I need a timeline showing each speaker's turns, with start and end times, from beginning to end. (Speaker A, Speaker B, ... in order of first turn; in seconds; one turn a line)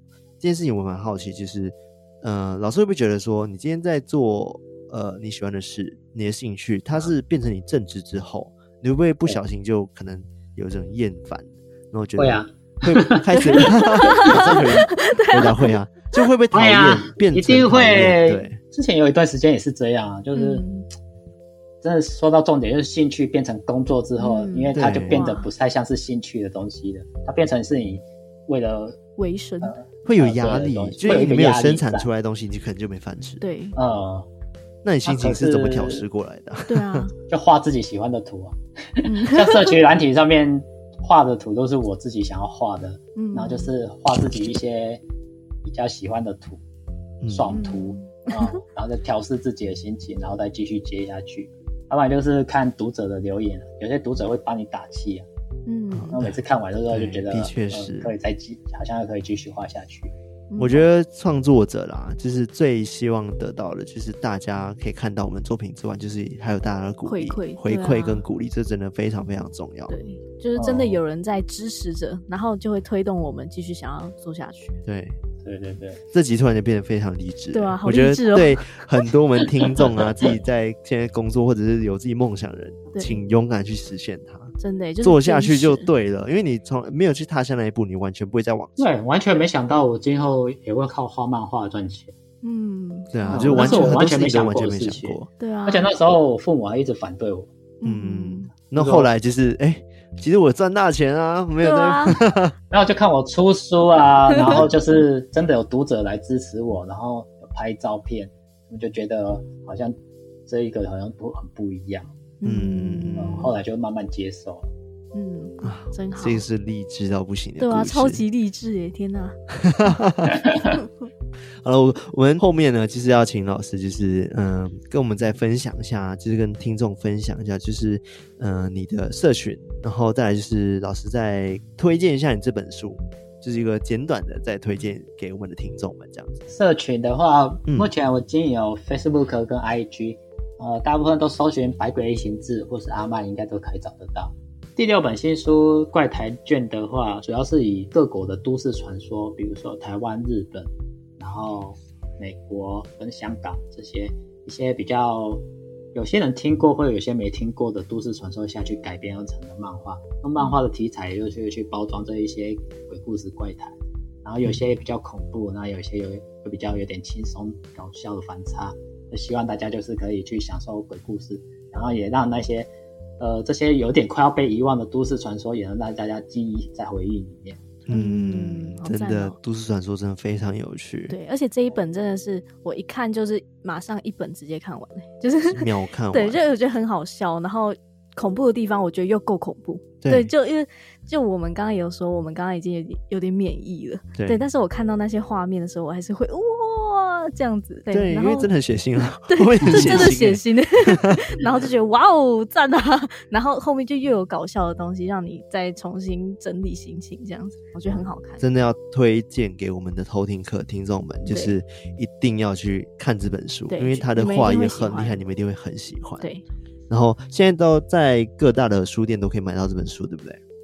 Speaker A: 0.4-18.6
Speaker B: 12.2-14.6
Speaker C: 13.5-15.7
Speaker B: 16.5-20.6
Speaker C: 20.4-20.9
Speaker B: 21.8-29.0
Speaker C: 24.2-25.5
Speaker A: 24.8-25.1
Speaker C: 29.2-29.7
Speaker B: 29.6-32.1
Speaker A: 30.1-33.4
Speaker C: 33.4-33.8
Speaker B: 33.8-34.3
Speaker A: 34.8-37.1
Speaker B: 35.0-36.0
Speaker C: 36.7-37.1
Speaker B: 37.3-45.0
Speaker C: 39.0-39.8
Speaker C: 43.1-43.7
Speaker B: 45.6-46.6
Speaker A: 47.2-47.5
Speaker B: 47.3-55.3
Speaker C: 47.5-48.6
Speaker C: 55.6-56.2
Speaker A: 55.9-56.4
Speaker B: 56.1-60.1
Speaker A: 56.9-58.1
Speaker C: 60.5-60.9
Speaker A: 60.6-69.9
Speaker C: 67.1-68.2
Speaker C: 69.9-74.8
Speaker B: 70.6-71.0
Speaker A: 74.8-75.2
Speaker B: 75.4-76.0
Speaker A: 76.1-88.8
Speaker C: 77.5-78.7
Speaker C: 84.6-85.9
Speaker B: 88.8-92.1
Speaker C: 92.4-94.0
Speaker A: 93.1-95.3
Speaker B: 93.3-97.5
Speaker C: 95.4-95.9
Speaker C: 97.8-98.5
Speaker A: 97.8-102.5
Speaker B: 98.8-99.1
Speaker C: 101.6-102.2
Speaker B: 102.7-110.0
Speaker B: 110.5-112.1
Speaker C: 112.4-113.5
Speaker A: 112.4-113.5
Speaker B: 113.2-114.7
Speaker C: 115.1-116.4
Speaker A: 115.6-118.2
Speaker C: 117.6-119.4
Speaker A: 119.5-120.5
Speaker A: 121.6-136.4
Speaker B: 136.5-155.4
Speaker A: 137.7-137.9
Speaker B: 155.9-177.7
Speaker A: 177.9-181.2
Speaker C: 177.9-179.4
Speaker C: 181.1-198.5
Speaker A: 185.5-186.4
Speaker A: 190.0-190.3
Speaker A: 197.9-201.2
Speaker C: 199.0-208.4
Speaker A: 207.9-216.3
Speaker C: 213.7-215.2
Speaker A: 216.9-220.4